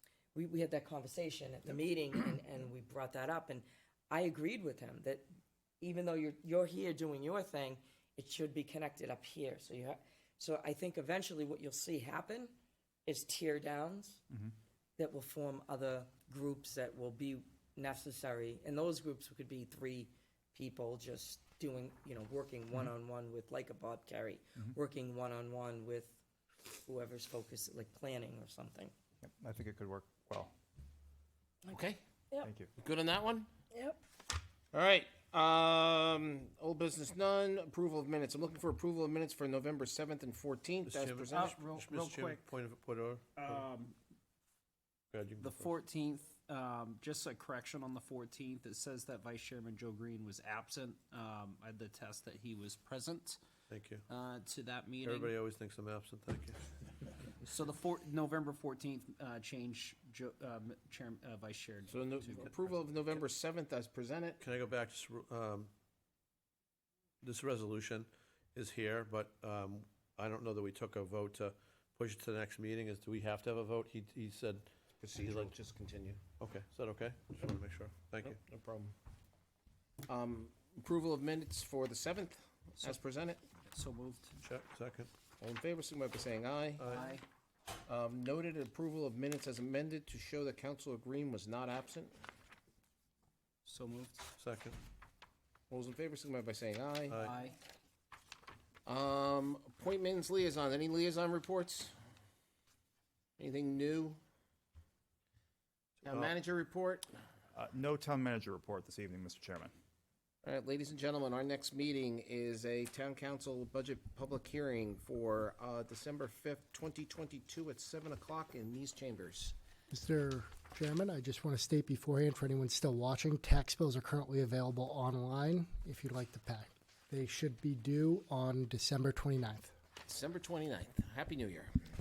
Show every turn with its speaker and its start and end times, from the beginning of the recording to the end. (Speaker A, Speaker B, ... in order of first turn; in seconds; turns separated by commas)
Speaker A: 0.3-5.3, Speaker A: 5.8-12.5, Speaker A: 13.1-14.2, Speaker A: 15.0-26.2, Speaker A: 26.8-28.9, Speaker B: 29.2-30.5, Speaker C: 31.6-32.0, Speaker B: 32.4-32.7, Speaker C: 32.8-33.5, Speaker A: 33.7-34.0, Speaker C: 34.7-41.6, Speaker D: 40.9-43.6, Speaker E: 41.4-42.4, Speaker E: 43.4-44.0, Speaker D: 45.1-45.7, Speaker E: 45.4-53.4, Speaker D: 53.7-54.0, Speaker E: 54.1-55.3, Speaker D: 55.0-56.6, Speaker E: 57.4-62.5, Speaker C: 61.9-64.4, Speaker D: 64.4-65.7, Speaker D: 67.2-75.5, Speaker C: 75.0-76.2, Speaker D: 76.4-78.4, Speaker C: 78.2-78.9, Speaker C: 80.0-83.4, Speaker E: 83.7-84.3, Speaker D: 84.4-85.1, Speaker C: 85.4-86.9, Speaker D: 86.8-87.0, Speaker E: 86.8-87.2, Speaker C: 87.8-92.1, Speaker E: 93.6-94.3, Speaker D: 94.4-94.8, Speaker C: 95.7-97.3, Speaker D: 97.1-97.3, Speaker E: 97.2-97.5, Speaker C: 98.8-101.9, Speaker C: 103.4-104.2, Speaker C: 106.0-107.1, Speaker B: 107.5-109.7, Speaker C: 110.4-119.5, Speaker F: 119.9-129.7, Speaker C: 130.0-131.7